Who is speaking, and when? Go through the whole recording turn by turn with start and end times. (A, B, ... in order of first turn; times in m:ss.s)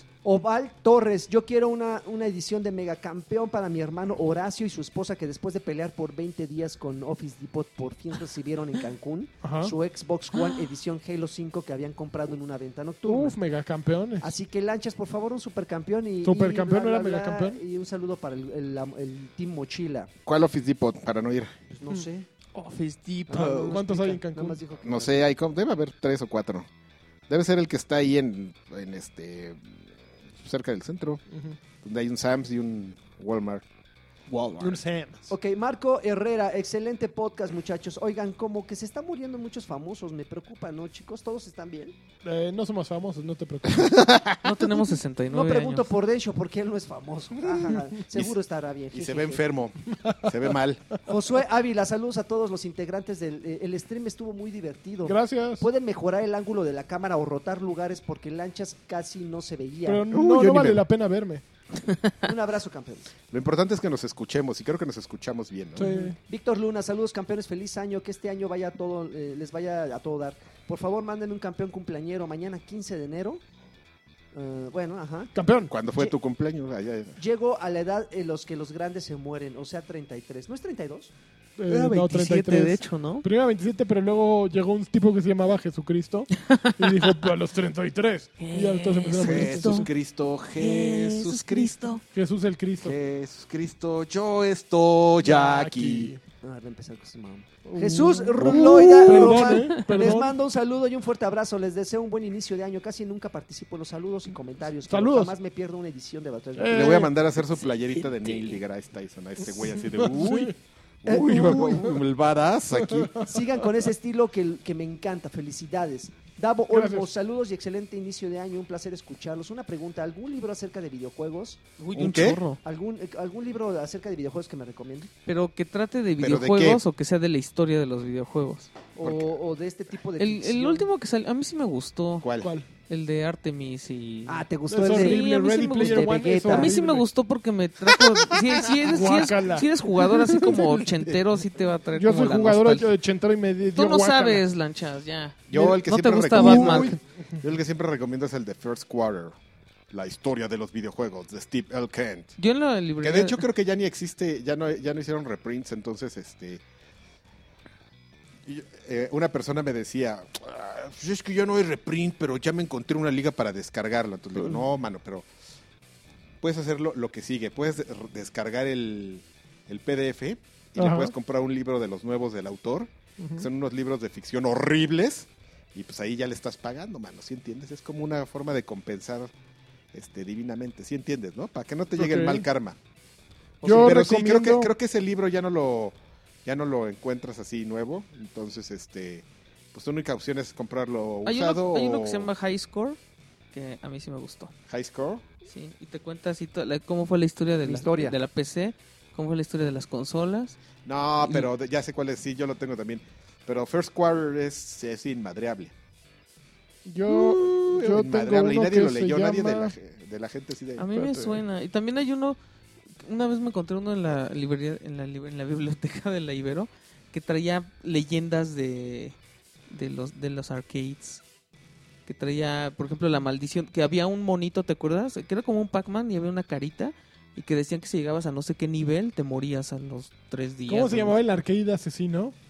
0:00.2-0:13.4 A
0:09.4-0:09.8 B
0:10.4-0:10.6 C
0:13.1-0:14.3 B
0:14.2-0:20.1 A
0:16.2-0:17.6 B
0:20.3-0:21.6 D
0:21.7-0:22.3 A
0:22.5-0:23.8 C
0:23.3-0:25.3 A
0:23.4-0:24.6 B
0:24.8-0:26.7 D
0:27.3-0:29.6 D
0:30.4-0:31.2 D
0:31.3-0:31.6 B
0:31.8-0:33.6 D
0:34.3-0:34.8 D
0:34.6-0:35.3 B
0:35.3-0:42.0 A
0:42.2-0:44.1 B
0:43.7-0:44.7 D
0:44.4-0:45.9 C
0:45.3-0:49.4 A
0:48.9-0:50.8 D
0:49.9-0:50.3 B
0:51.1-1:00.1 A
0:55.0-0:55.7 B
0:59.8-1:01.4 B
1:00.1-1:00.8 D
1:02.2-1:03.1 A
1:03.3-1:05.9 D
1:05.8-1:06.2 B
1:06.3-1:13.4 A
1:14.3-1:15.3 A
1:15.4-1:15.7 B
1:15.7-1:17.2 D
1:17.2-1:21.1 A
1:21.6-1:29.9 B
1:21.7-1:23.3 C
1:26.4-1:27.1 C
1:28.4-1:29.9 C
1:29.2-1:31.8 D
1:30.6-1:32.0 C
1:32.1-1:33.0 B
1:32.8-1:36.2 D
1:35.2-1:36.2 B
1:36.4-1:47.1 A
1:37.6-1:40.3 B
1:38.4-1:39.2 D
1:39.2-1:40.1 C
1:44.9-1:45.4 B
1:46.6-1:47.1 B
1:46.7-1:53.2 D
1:47.5-1:48.6 C
1:49.4-1:50.6 B
1:51.1-1:52.0 A
1:51.4-1:51.8 B
1:52.7-1:53.4 B
1:53.2-2:01.6 A
1:56.7-1:57.1 B
2:01.8-2:02.6 C
2:01.9-2:02.4 D
2:02.6-2:05.1 A
2:05.3-2:08.7 C
2:06.2-2:06.8 D
2:09.0-2:10.9 A
2:09.0-2:09.4 D
2:10.2-2:12.3 C
2:12.2-2:12.5 D
2:12.4-2:12.7 B
2:12.9-2:22.9 C
2:14.3-2:16.7 A
2:14.7-2:17.1 B
2:18.8-2:20.7 B
2:20.6-2:21.2 D
2:22.0-2:24.4 B
2:23.8-2:27.0 C
2:25.5-2:29.4 D
2:26.3-2:27.0 B
2:29.9-2:32.3 D
2:32.4-2:33.4 C
2:33.0-2:36.6 D
2:38.5-2:45.3 D
2:46.4-2:59.3 D
2:50.8-2:51.1 B
2:53.2-2:53.5 B
2:59.9-3:02.8 D
3:02.0-3:02.5 B
3:03.6-3:04.7 B
3:03.6-3:12.3 D
3:11.2-3:13.0 C
3:13.5-3:14.5 C
3:14.7-3:15.2 D
3:15.5-3:20.6 C
3:17.6-3:18.2 A
3:20.9-3:25.7 D
3:21.2-3:21.5 C
3:26.8-3:29.7 B
3:27.1-3:30.9 D
3:30.8-3:32.4 C
3:30.9-3:31.4 B
3:33.0-3:39.2 C
3:39.7-3:41.2 C
3:42.1-3:51.2 C
3:50.7-3:52.4 B